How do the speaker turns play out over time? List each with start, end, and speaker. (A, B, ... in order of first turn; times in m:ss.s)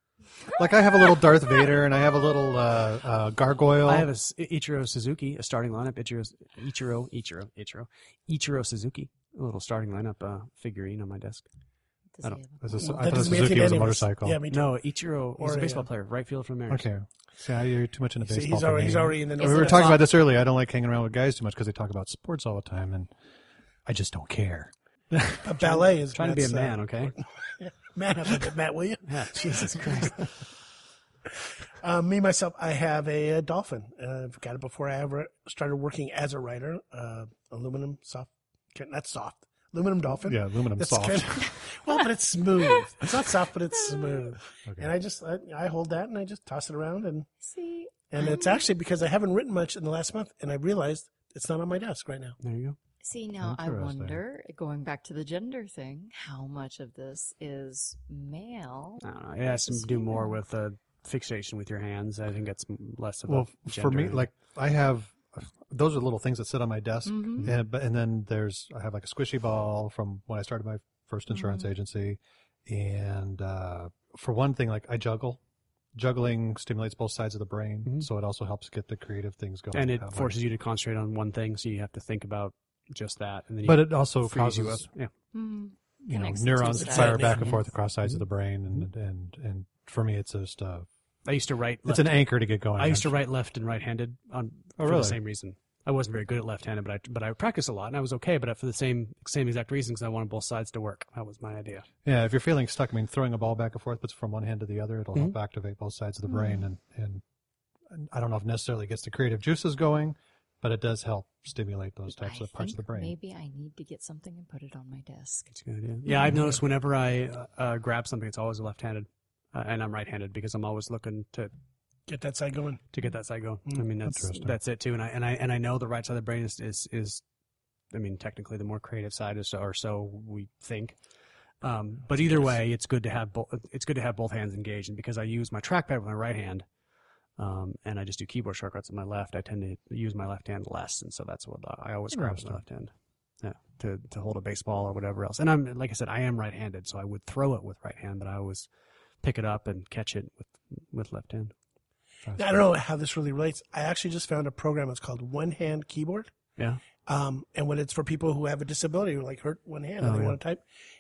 0:00.6-0:04.1 A
0:03.8-0:11.4 B
0:12.2-0:13.0 C
0:12.6-0:14.4 A
0:12.7-0:14.7 D
0:14.5-0:16.9 B
0:15.4-0:15.9 D
0:16.7-0:23.1 A
0:18.2-0:20.0 D
0:19.4-0:19.9 C
0:23.9-0:25.5 A
0:25.4-0:30.2 D
0:25.6-0:27.1 B
0:29.1-0:30.3 B
0:31.8-0:47.3 D
0:40.2-0:41.5 A
0:44.6-0:44.9 A
0:47.4-0:48.6 C
0:48.1-0:52.4 D
0:52.4-0:52.8 B
0:53.0-1:00.4 C
0:53.4-0:54.2 A
0:59.0-1:04.3 B
1:03.3-1:15.4 A
1:07.1-1:07.5 C
1:11.3-1:11.7 C
1:16.0-1:20.4 A
1:19.7-1:25.1 B
1:23.6-1:24.9 A
1:25.3-1:27.6 C
1:26.0-1:30.9 A
1:26.7-1:27.5 D
1:28.0-1:28.9 B
1:31.2-1:41.9 B
1:31.9-1:33.2 A
1:34.8-1:35.2 A
1:42.0-1:47.2 A
1:46.3-1:46.7 C
1:47.9-1:53.1 A
1:52.1-1:55.5 C
1:55.5-2:01.5 B
1:56.1-1:56.4 C
2:02.1-2:02.8 D
2:02.9-2:07.2 B
2:04.0-2:04.6 A
2:07.9-2:11.0 B
2:11.6-2:16.6 B
2:12.2-2:12.6 D
2:17.4-2:22.9 B
2:22.1-2:22.6 A
2:23.4-2:28.7 B
2:29.2-2:31.5 B
2:32.3-2:32.6 A
2:32.4-2:36.3 D
2:37.1-2:40.6 D
2:40.0-2:40.4 B